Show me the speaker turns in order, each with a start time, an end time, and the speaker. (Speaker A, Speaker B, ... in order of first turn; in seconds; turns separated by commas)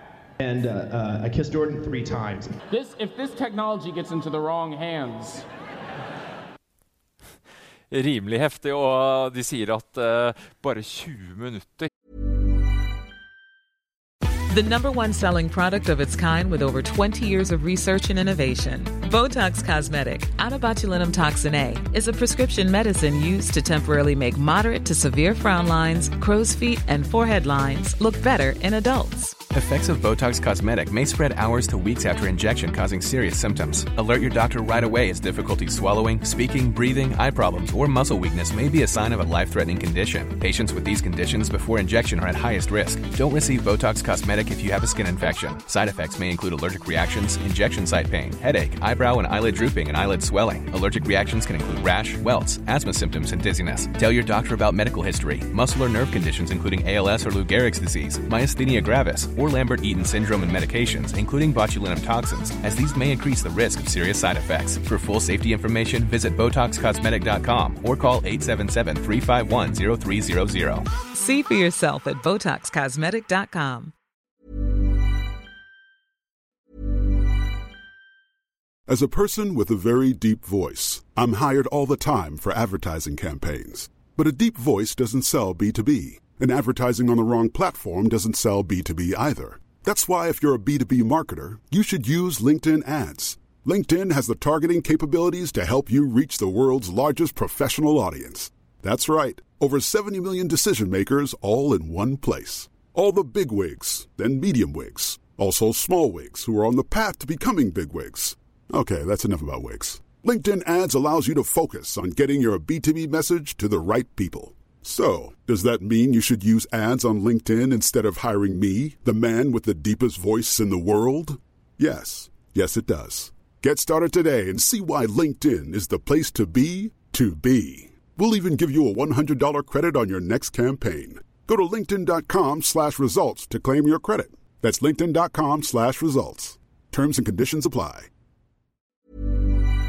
Speaker A: 0.4-2.5, Speaker B: 2.7-5.5, Speaker C: 7.9-11.9, Speaker D: 14.5-29.4, Speaker E: 29.5-70.9, Speaker D: 71.0-73.9, Speaker F: 78.9-138.1